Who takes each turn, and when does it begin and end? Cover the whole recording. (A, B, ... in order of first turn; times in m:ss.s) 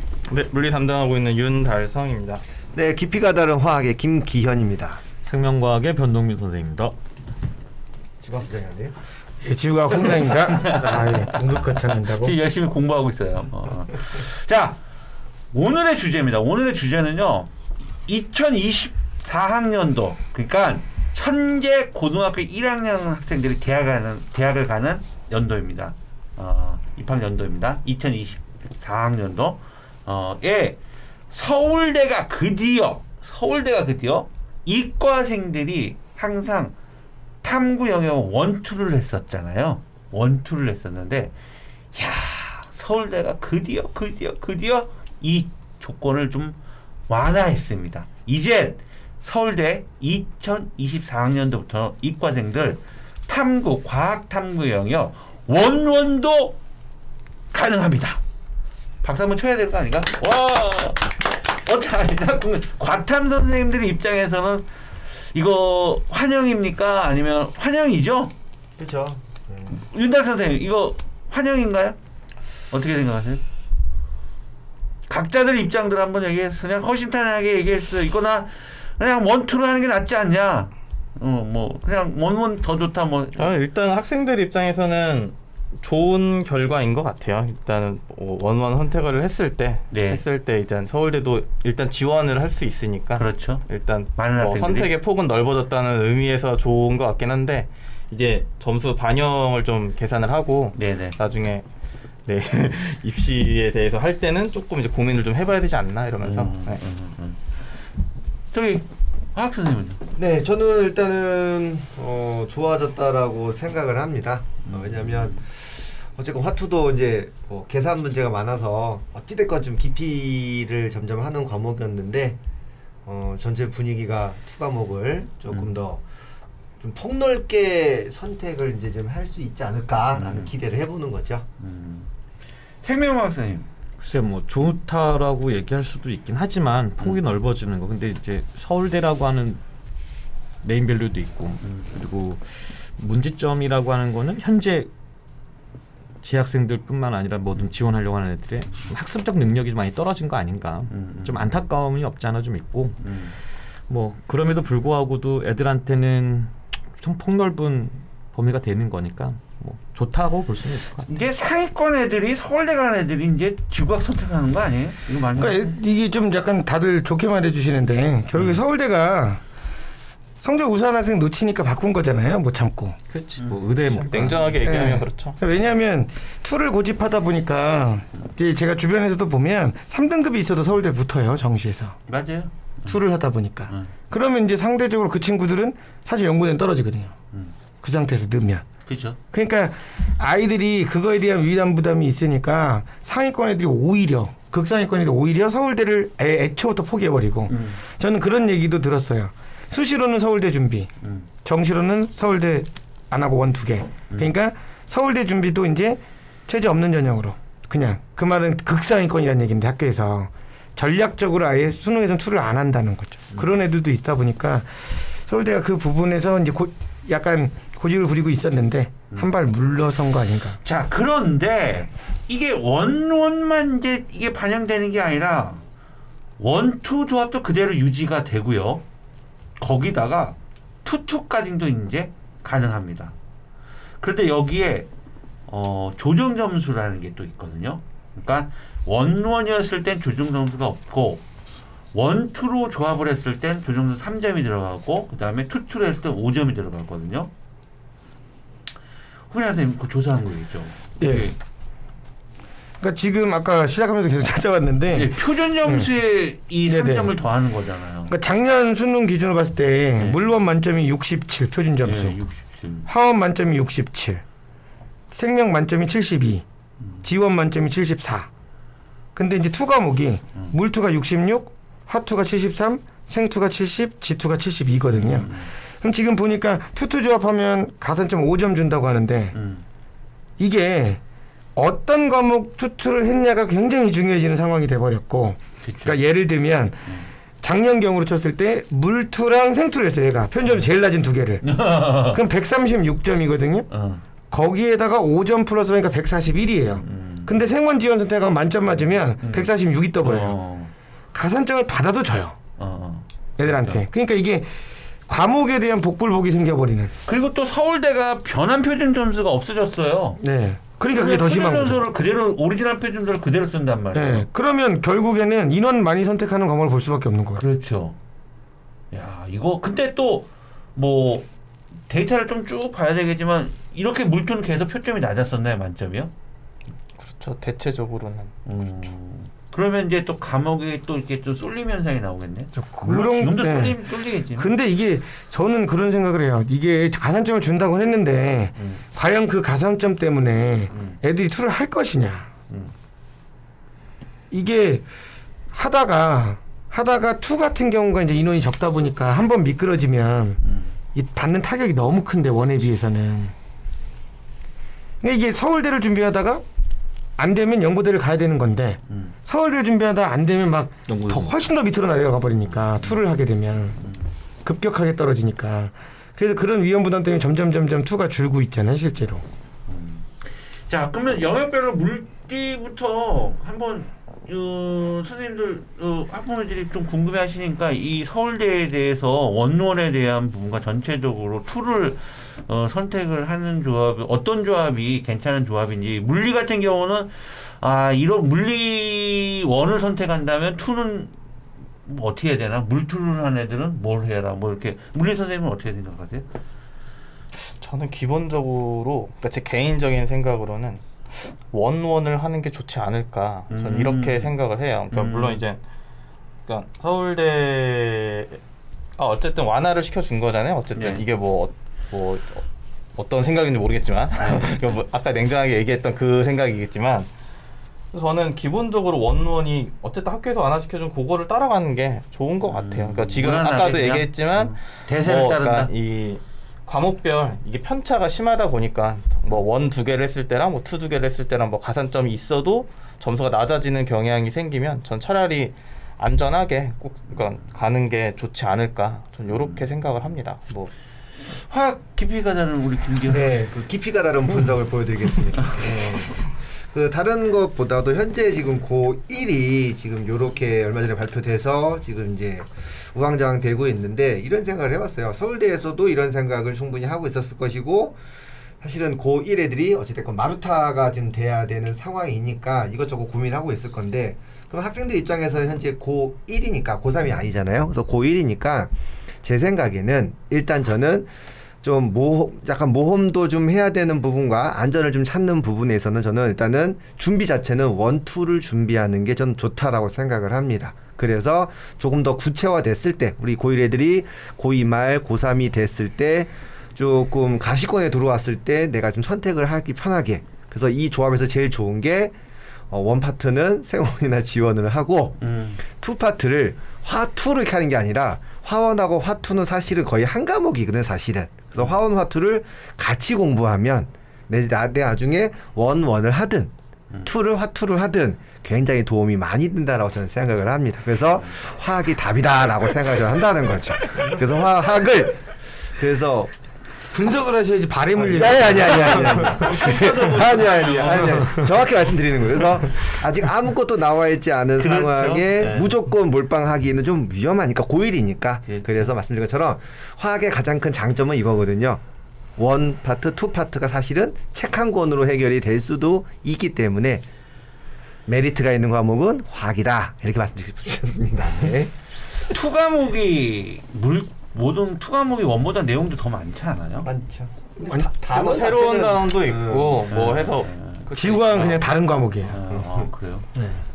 0:00.3-0:02.4 A
0:02.7-0:05.0 B
0:05.2-0:06.9 C
0:08.2-0:08.9 B
0:09.4-0:12.4 D
0:10.3-0:14.8 E
0:15.5-0:17.5 E
0:18.0-0:30.8 E
0:31.3-0:36.7 E
0:37.4-0:41.3 E
0:41.9-0:46.6 E
0:47.1-0:56.6 E
0:57.5-0:58.2 E
0:59.0-1:04.7 E
1:05.3-1:08.3 E
1:08.8-1:09.8 B
1:09.7-1:12.0 E
1:12.7-1:13.4 E
1:15.1-1:23.6 E
1:23.4-1:41.6 A
1:29.9-1:30.2 E
1:33.2-1:33.6 E
1:34.2-1:34.9 E
1:40.8-1:41.2 E
1:42.2-1:46.8 A
1:46.2-1:47.4 E
1:48.5-1:50.0 E
1:50.1-2:02.4 B
1:54.6-1:55.4 E
2:03.0-2:06.0 B
2:06.8-2:11.4 B
2:10.1-2:10.5 E
2:11.6-2:12.1 E
2:12.8-2:13.7 E
2:14.0-2:19.6 C
2:20.6-2:24.9 C
2:21.6-2:21.9 E
2:26.2-2:33.0 C
2:30.9-2:31.6 E
2:33.0-2:33.3 E
2:33.9-2:41.1 C
2:41.1-2:45.8 E
2:45.3-2:49.4 D
2:48.3-2:48.6 E
2:50.4-2:53.0 D
2:53.1-2:54.6 C
2:53.4-2:53.7 E
2:53.9-2:55.4 A
2:54.6-3:02.0 D
3:02.1-3:03.0 E
3:02.8-3:07.1 D
3:07.8-3:08.6 D
3:08.9-3:09.2 E
3:09.3-3:20.9 D
3:17.5-3:17.8 E
3:21.0-3:21.3 E
3:21.4-3:40.6 D
3:40.6-3:45.6 E
3:46.4-3:48.8 E
3:49.6-3:53.1 E
3:54.0-3:54.9 E
3:55.5-4:01.2 E
4:01.9-4:07.3 E
4:09.3-4:11.4 E
4:11.0-4:11.3 D
4:12.8-4:15.9 D
4:14.9-4:18.1 E
4:16.6-4:17.2 D
4:18.1-4:22.2 D
4:20.0-4:20.2 E
4:21.8-4:22.9 E
4:22.8-4:24.2 D
4:25.1-4:26.4 D
4:26.8-4:27.0 E
4:27.0-4:28.3 D
4:29.1-4:39.4 D
4:34.9-4:35.5 E
4:39.3-4:39.6 E
4:40.4-4:41.0 D
4:41.6-4:46.9 D
4:45.6-4:46.0 E
4:47.4-4:51.5 D
4:51.4-4:52.2 E
4:52.1-4:53.7 D
4:53.7-4:54.0 E
4:54.3-5:00.4 D
4:56.8-4:57.4 E
4:59.2-5:00.7 E
5:01.1-5:02.4 D
5:02.6-5:03.8 E
5:03.4-5:04.5 D
5:05.1-5:06.9 D
5:07.0-5:10.2 E
5:10.2-5:11.8 D
5:10.9-5:14.2 E
5:13.9-5:17.4 D
5:17.4-5:18.0 E
5:18.9-5:21.3 E
5:21.9-5:26.1 E
5:27.0-5:28.3 A
5:28.4-5:34.5 E
5:32.5-5:42.3 D
5:38.6-5:38.8 E
5:40.7-5:41.0 E
5:42.5-5:42.7 E
5:44.3-5:44.8 D
5:45.5-5:50.4 D
5:50.4-5:50.7 E
5:50.9-5:53.3 D
5:55.0-5:56.4 D
5:57.2-6:03.8 D
5:58.9-5:59.1 E
6:00.9-6:01.4 C
6:03.8-6:04.1 E
6:04.4-6:09.2 D
6:09.7-6:10.1 E
6:10.7-6:31.1 E
6:31.8-6:36.3 E
6:37.3-6:45.6 A
6:43.5-6:44.3 E
6:44.9-6:45.4 E
6:46.4-6:48.4 A
6:49.0-6:52.4 A
6:50.7-6:51.0 E
6:53.0-6:57.1 A
6:57.9-7:20.7 A
7:02.5-7:05.7 E
7:19.3-7:19.6 E
7:21.2-7:23.4 E
7:23.1-7:38.0 B
7:38.6-7:48.7 B
7:49.2-7:51.1 B
7:51.6-8:12.1 B
8:12.7-8:26.5 B
8:15.2-8:15.6 E
8:27.0-8:36.3 B
8:36.9-8:39.7 D
8:38.1-8:51.8 B
8:38.3-8:41.3 E
8:44.6-8:45.8 E
8:48.4-8:48.9 E
8:52.4-8:57.0 B
8:58.1-9:01.7 B
9:02.2-9:06.9 E
9:06.8-9:10.1 B
9:08.0-9:11.7 A
9:09.9-9:10.9 E
9:10.9-9:12.4 D
9:12.2-9:12.9 B
9:12.3-9:13.3 E
9:13.3-9:13.6 D